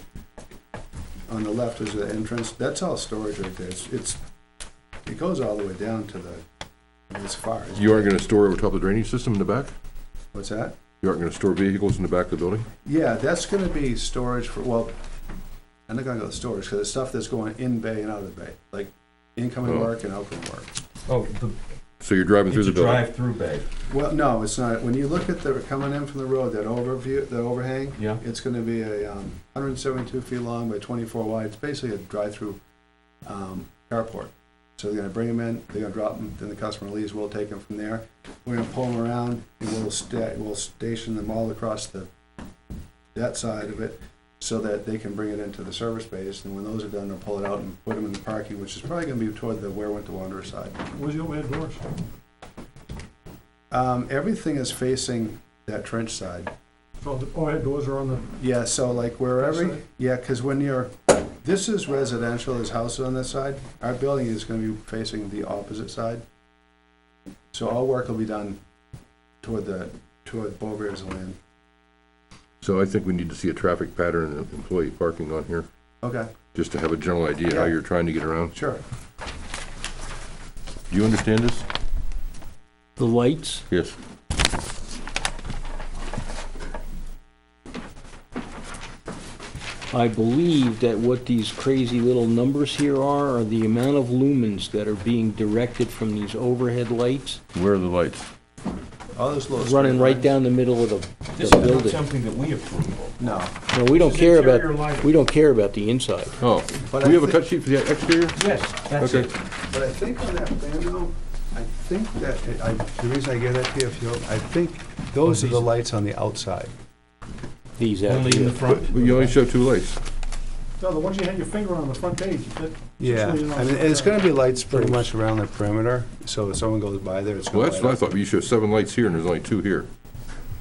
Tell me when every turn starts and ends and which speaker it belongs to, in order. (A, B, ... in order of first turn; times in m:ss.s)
0:01.3-0:04.2 A
0:05.0-0:06.4 A
0:07.1-0:08.1 A
0:07.8-0:09.7 B
0:10.3-0:10.8 A
0:11.0-0:12.7 B
0:12.8-0:14.9 A
0:15.9-0:20.7 A
0:19.6-0:19.9 B
0:21.1-0:21.6 C
0:22.0-0:23.1 B
0:22.5-0:23.7 C
0:23.9-0:32.6 A
0:33.2-0:42.1 A
0:43.1-0:50.8 A
0:50.9-0:51.8 D
0:53.7-0:56.5 A
0:57.0-0:58.3 D
0:58.4-1:06.2 A
0:59.4-0:59.8 D
1:07.5-1:08.6 A
1:09.4-1:11.4 A
1:12.6-1:15.7 B
1:16.0-1:16.3 A
1:16.5-1:18.5 B
1:17.5-1:17.7 A
1:18.5-1:18.8 A
1:20.9-1:21.7 B
1:23.0-1:23.6 E
1:23.7-1:24.0 B
1:29.9-1:37.4 E
1:37.5-1:38.3 B
1:39.1-1:40.3 A
1:39.6-1:42.0 E
1:41.3-1:45.1 C
1:43.2-1:43.5 A
1:43.7-1:46.4 E
1:46.4-1:48.4 B
1:46.9-1:47.4 A
1:48.4-1:49.4 C
1:49.0-1:49.3 B
1:49.7-1:56.7 A
1:55.2-1:55.7 C
1:57.8-1:58.6 E
1:58.0-1:59.3 C
1:58.7-2:00.0 B
2:00.8-2:05.0 D
2:03.0-2:08.1 A
2:07.5-2:09.9 B